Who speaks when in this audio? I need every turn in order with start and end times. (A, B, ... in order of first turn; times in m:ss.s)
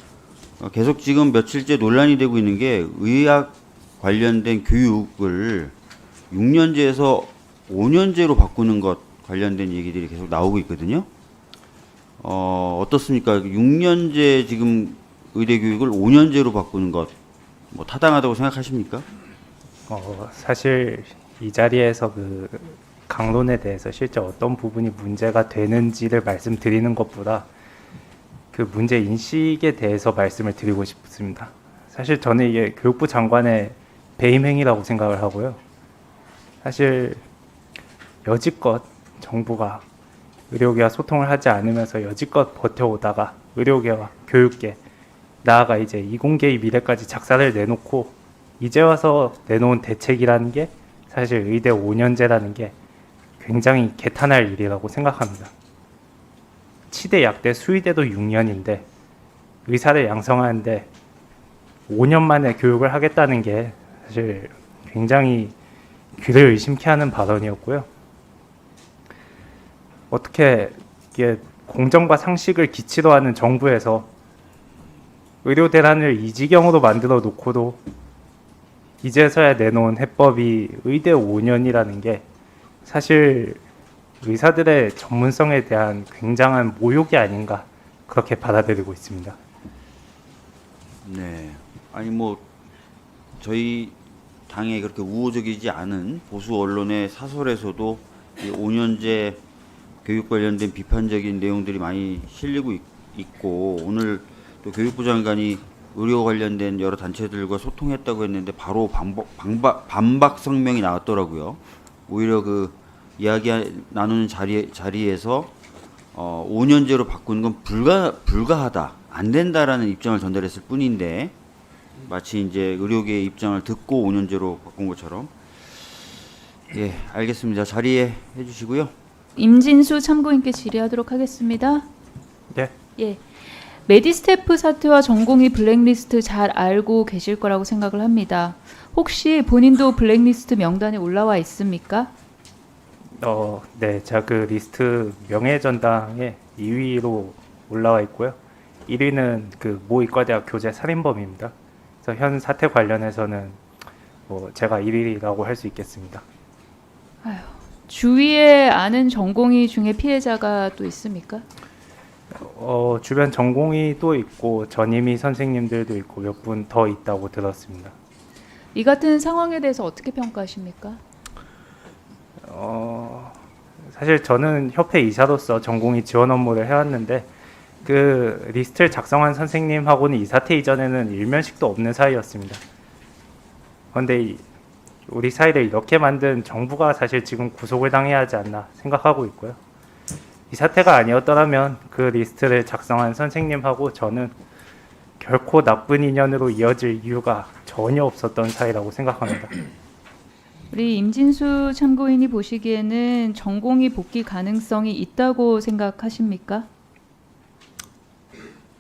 0:00.6-0:05.8 A
0:06.3-0:11.1 A
0:12.2-0:17.1 A
0:17.7-0:19.1 A
0:19.9-0:27.5 B
0:28.5-0:35.6 B
0:36.6-0:37.2 B
0:38.2-0:39.8 B
0:40.5-0:44.8 B
0:45.4-0:52.7 B
0:53.4-0:55.5 B
0:56.9-0:58.8 B
0:59.7-1:00.9 B
1:01.9-1:05.5 B
1:06.2-1:07.9 B
1:10.1-1:14.1 B
1:15.4-1:17.8 B
1:19.0-1:22.2 B
1:22.8-1:23.6 B
1:24.2-1:29.4 B
1:31.0-1:32.4 A
1:33.4-1:34.0 A
1:34.5-1:39.4 A
1:40.0-1:55.5 A
1:56.1-2:01.4 A
2:02.0-2:05.3 A
2:06.7-2:08.9 A
2:09.4-2:11.9 C
2:13.0-2:22.1 C
2:23.2-2:33.6 B
2:34.3-2:36.2 B
2:37.2-2:41.5 C
2:42.3-2:47.9 B
2:48.7-2:51.0 C
2:52.4-2:53.4 B
2:53.9-2:57.3 B
2:57.8-3:02.6 B
3:03.9-3:04.4 B
3:05.1-3:09.6 B
3:10.5-3:14.3 B
3:15.2-3:19.5 B
3:20.7-3:26.7 C